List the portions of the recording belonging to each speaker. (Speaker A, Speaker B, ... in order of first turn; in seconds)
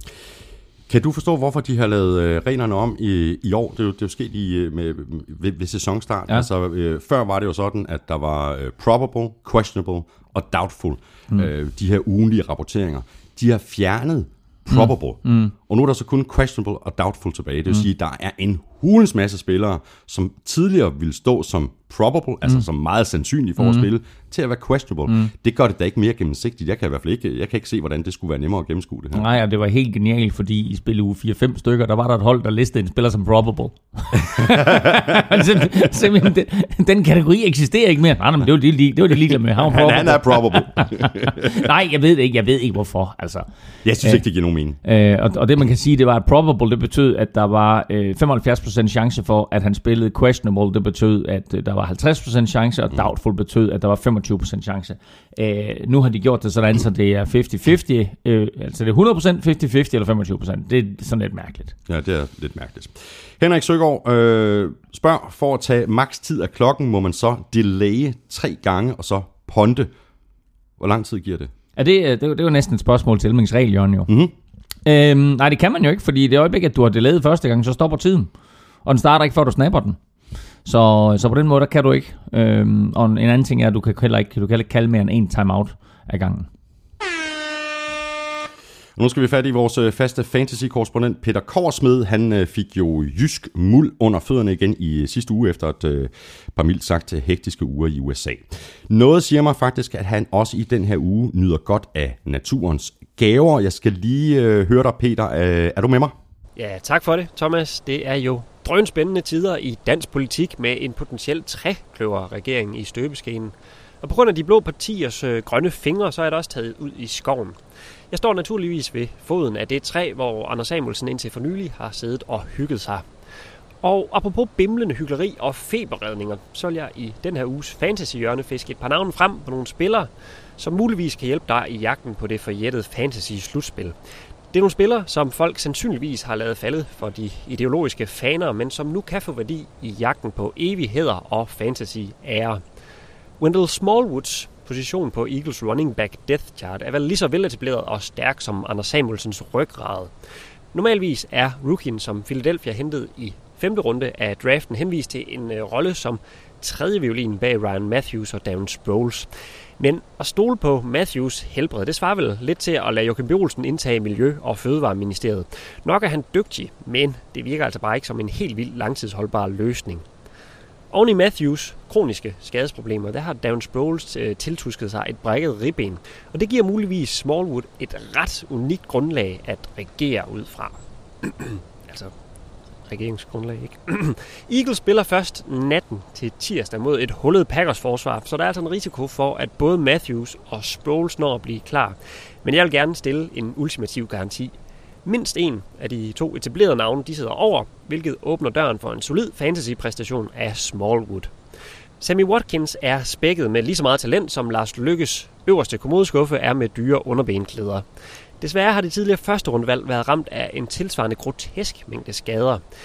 Speaker A: 0.9-29.2, 34.5-34.9, 39.7-41.6, 43.8-44.8, 61.9-69.9, 70.8-71.5, 74.1-74.3, 89.0-106.1
Speaker B: 14.7-15.5, 23.6-23.9, 29.1-43.5, 44.8-61.8, 71.8-74.1, 74.8-78.3, 78.8-80.0, 80.6-86.5
Speaker C: 106.5-123.1, 123.8-134.0, 134.5-142.7, 143.4-150.1, 150.7-170.1, 170.9-182.1, 182.8-201.3, 202.0-207.8, 208.4-212.6